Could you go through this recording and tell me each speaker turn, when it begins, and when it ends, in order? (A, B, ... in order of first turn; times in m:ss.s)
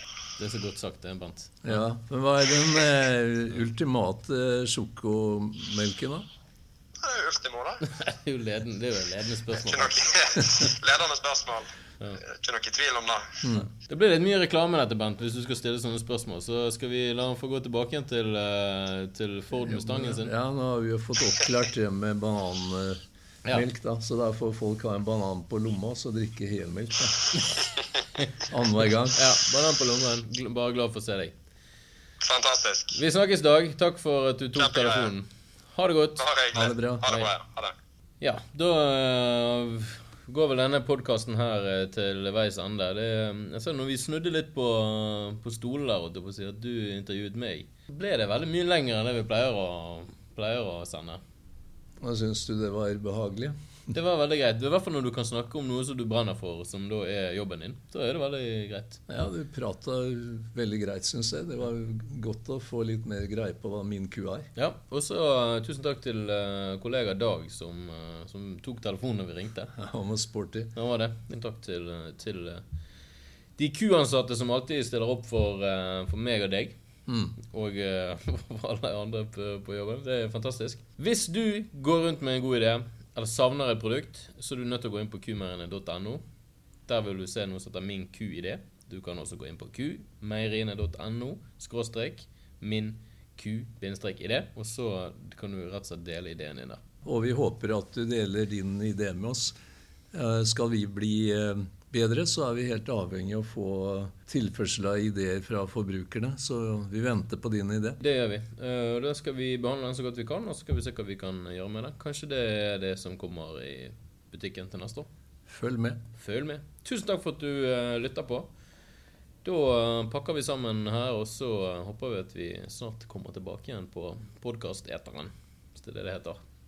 0:00.4-0:01.8 A
0:01.6-0:06.2 B
0:07.0-0:07.8 C
0:07.9-0:09.9 A
0:09.6-0:11.7 C
0:12.2-0:13.4 C
0:13.4-0:13.7 B
0:13.7-0:20.3 A
0:19.6-0:23.0 B
0:23.5-0:27.2 B
0:28.4-0:29.2 B
0:29.1-0:31.3 A
0:32.2-0:33.0 C
0:32.9-0:36.2 A
0:34.5-0:35.1 C
0:36.2-0:37.7 C
0:36.5-0:37.1 B
0:38.2-0:51.2 A
0:52.0-0:53.5 B
0:53.9-0:59.0 A
0:59.1-1:04.5 B
1:04.5-1:09.7 A
1:09.8-1:10.7 B
1:10.7-1:12.6 A
1:13.6-1:16.7 A
1:17.1-1:17.3 B
1:17.5-1:26.2 A
1:26.9-1:36.8 A
1:37.0-1:39.5 B
1:40.1-1:48.0 B
1:48.0-1:55.1 A
1:55.5-1:56.0 B
1:56.1-1:58.5 A
1:59.4-2:06.4 A